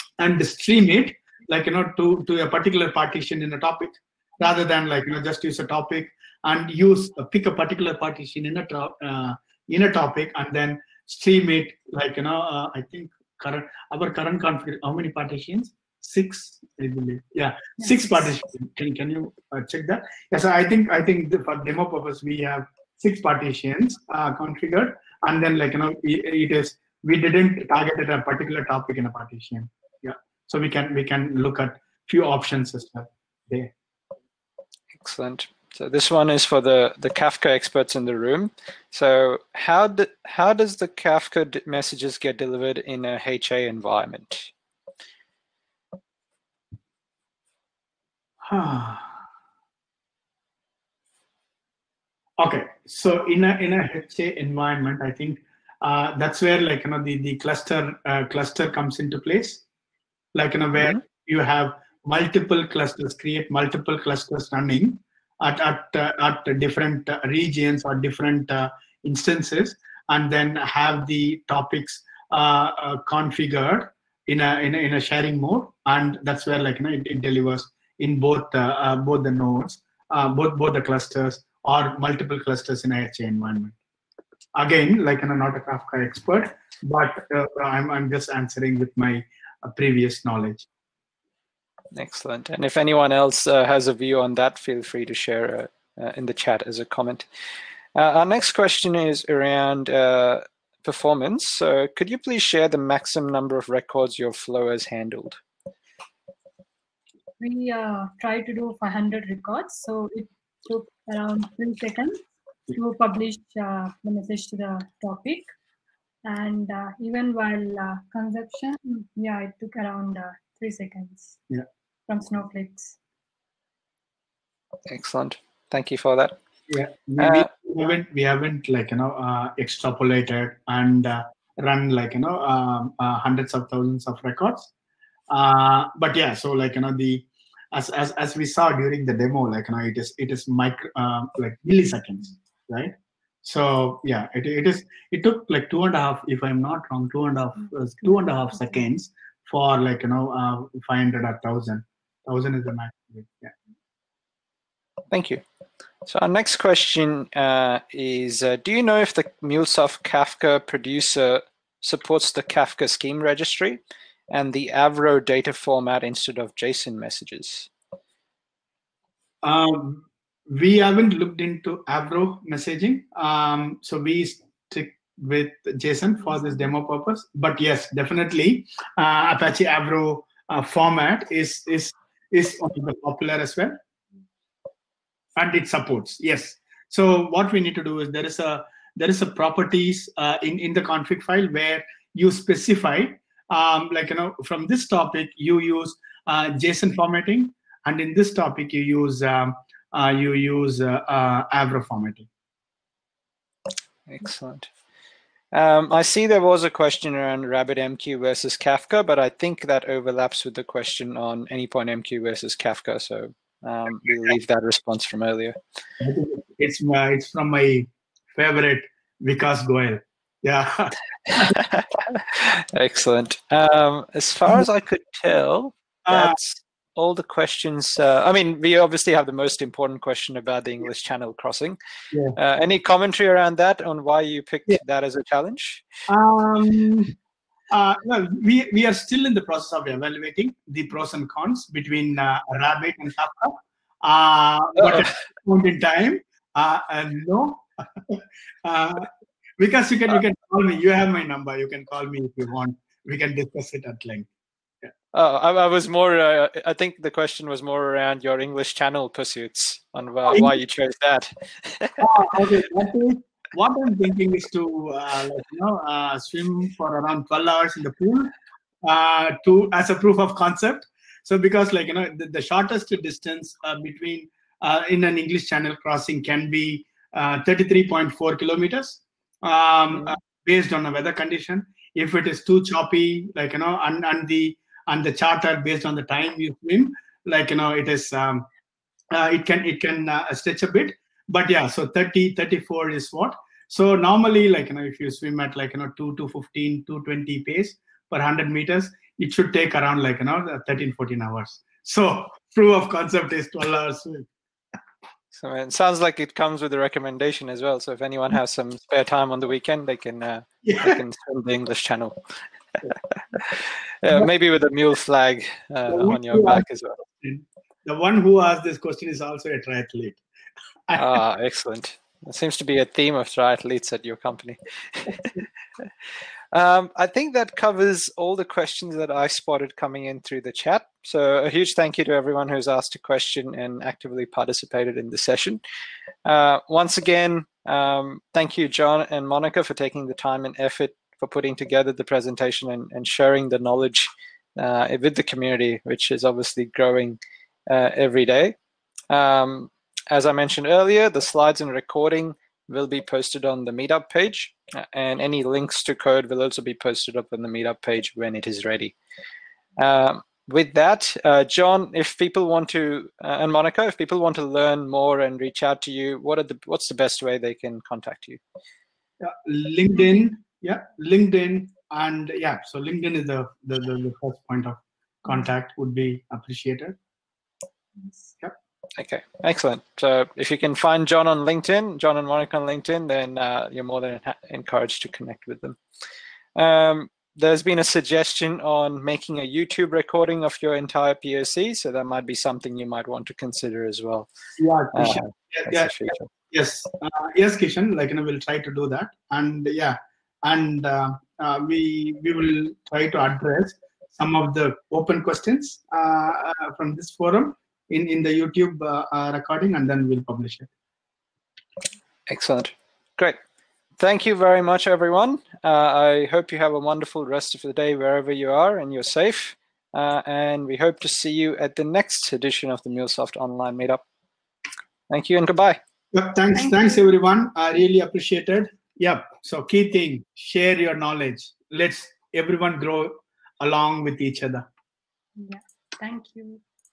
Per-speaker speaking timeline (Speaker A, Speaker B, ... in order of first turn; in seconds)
Speaker A: 0.2-33.7, 48.4-49.1, 52.4-59.6, 60.3-83.8, 84.5-90.7, 126.7-134.7, 135.3-142.9, 143.4-153.5, 169.4-183.8, 185.4-202.3, 216.0-221.6, 226.1-226.4, 236.1-237.1, 237.7-254.3, 260.3-260.5, 262.0-288.5, 289.1-304.3, 310.6-311.0, 315.9-320.2, 320.9-321.2, 369.2-377.0, 394.6-410.7, 426.1-434.7
Speaker B: 34.9-44.5, 91.9-97.3, 98.0-105.4, 124.9-126.4, 127.2-127.5, 155.1-155.4, 156.1-167.7, 204.1-204.7, 205.5-215.6, 221.3-231.8, 232.3-235.9, 255.1-262.1, 305.3-312.2, 312.8-317.0, 321.0-325.9, 326.5-335.6, 336.2-348.6, 349.1-358.9, 359.8-368.4, 379.0-385.8, 386.6-394.3, 394.9-396.3, 412.3-413.4, 414.0-424.0, 425.1-425.8
Speaker C: 107.4-115.5, 116.2-121.4, 122.1-123.0, 426.6-426.9, 435.4-436.6